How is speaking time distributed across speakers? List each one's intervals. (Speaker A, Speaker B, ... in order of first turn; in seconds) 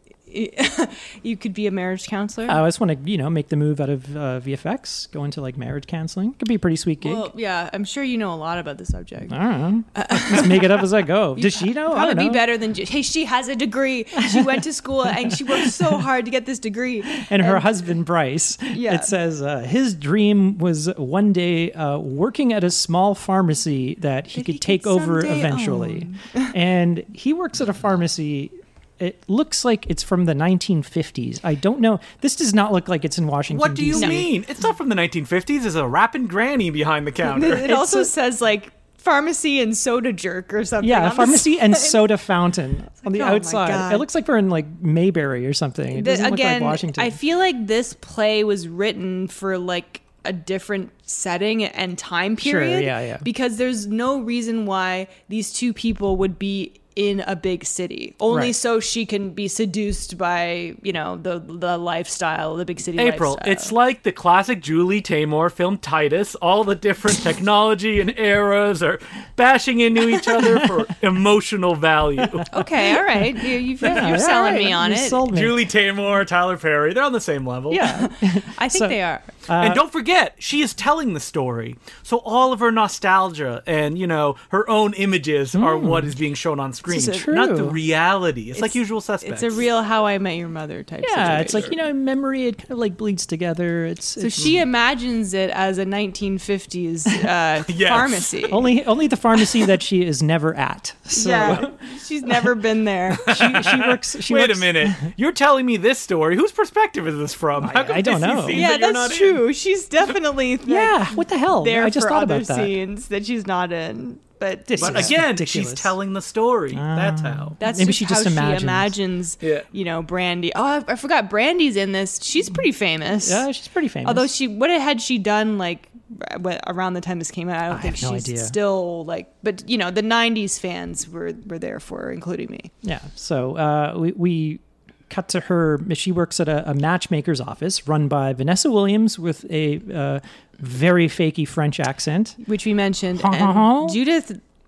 Speaker A: 0.3-2.6, 7.0-9.4, 9.9-10.8, 11.3-17.7, 18.7-19.1, 24.3-26.5, 34.0-34.3, 37.2-42.0, 43.0-44.1, 45.9-63.7, 72.5-75.3, 77.8-79.3, 88.5-91.7, 94.2-98.7, 101.1-103.4, 108.5-115.2, 117.6-123.4, 124.0-132.7, 142.4-144.4
Speaker B: 2.5-7.3, 9.3-12.4, 14.2-14.6, 15.2-16.0, 17.1-34.3, 37.6-38.1, 40.8-47.2, 52.4-53.3, 73.8-75.7, 77.7-79.0, 79.5-79.8, 85.5-86.2, 86.9-87.8, 91.0-94.6, 98.5-101.7, 103.3-105.1, 107.6-108.7, 110.7-112.7, 114.7-115.9, 116.7-118.9, 123.2-124.3, 127.7-128.6, 132.8-142.4, 143.2-144.0
Speaker C: 33.5-37.7, 63.0-72.5, 75.3-78.0, 79.6-89.6, 91.3-91.7, 97.7-98.4, 101.4-101.7, 103.2-109.5, 114.8-117.6